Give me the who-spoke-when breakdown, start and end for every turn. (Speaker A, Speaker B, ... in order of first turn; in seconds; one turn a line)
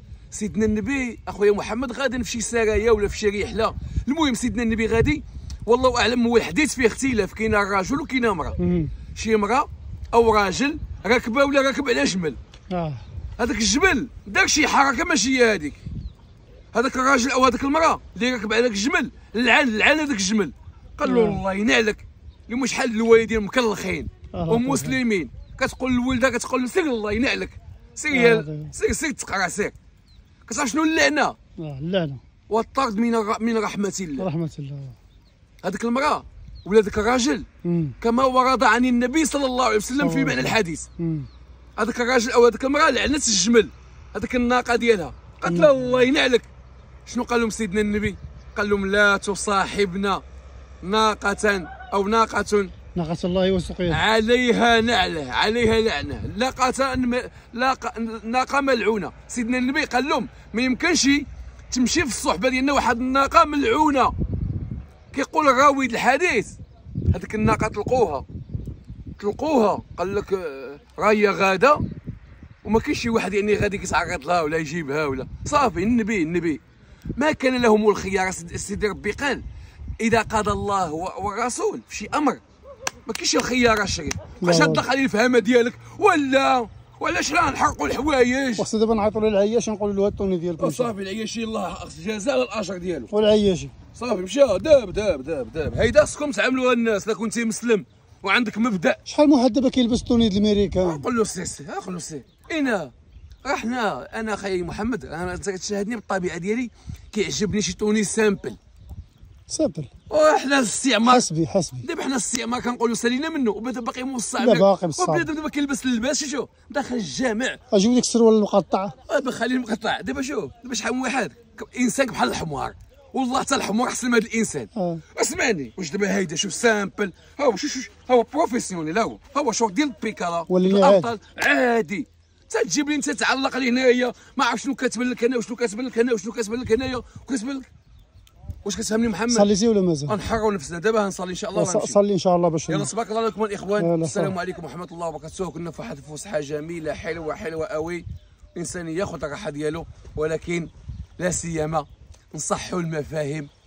Speaker A: 0.3-8.6
Speaker B: 8.6-8.9
Speaker A: 9.1-12.4
Speaker B: 12.7-13.0
Speaker A: 13.4-15.8
Speaker A: 16.7-29.7
Speaker B: 21.0-21.4
Speaker B: 24.3-25.0
Speaker B: 28.1-28.7
Speaker A: 30.4-31.4
Speaker B: 31.6-32.2
Speaker A: 32.5-34.3
Speaker B: 34.2-35.0
Speaker A: 35.6-37.5
Speaker B: 37.6-37.9
Speaker A: 38.0-40.9
Speaker B: 40.0-41.3
Speaker A: 41.8-46.5
Speaker B: 45.5-46.0
Speaker A: 47.0-50.2
Speaker A: 50.8-52.7
Speaker B: 52.9-54.0
Speaker A: 53.9-64.1
Speaker A: 65.1-66.6
Speaker A: 67.1-68.2
Speaker A: 69.2-71.8
Speaker A: 72.6-76.6
Speaker A: 77.2-79.4
Speaker A: 80.0-82.4
Speaker A: 83.0-88.7
Speaker B: 84.4-84.8
Speaker B: 88.6-90.9
Speaker A: 90.6-93.1
Speaker B: 93.1-93.7
Speaker A: 93.9-99.0
Speaker B: 99.1-101.0
Speaker A: 100.8-102.9
Speaker A: 103.4-108.6
Speaker B: 109.5-109.9
Speaker A: 110.1-111.3
Speaker B: 111.0-111.8
Speaker A: 111.8-117.6
Speaker B: 114.4-115.3
Speaker B: 117.7-118.9
Speaker A: 119.0-137.7
Speaker B: 124.8-125.0
Speaker B: 130.5-131.1
Speaker A: 138.6-139.5
Speaker B: 139.3-140.2
Speaker A: 140.1-142.0
Speaker B: 141.5-142.9
Speaker A: 142.7-153.5
Speaker B: 143.8-144.4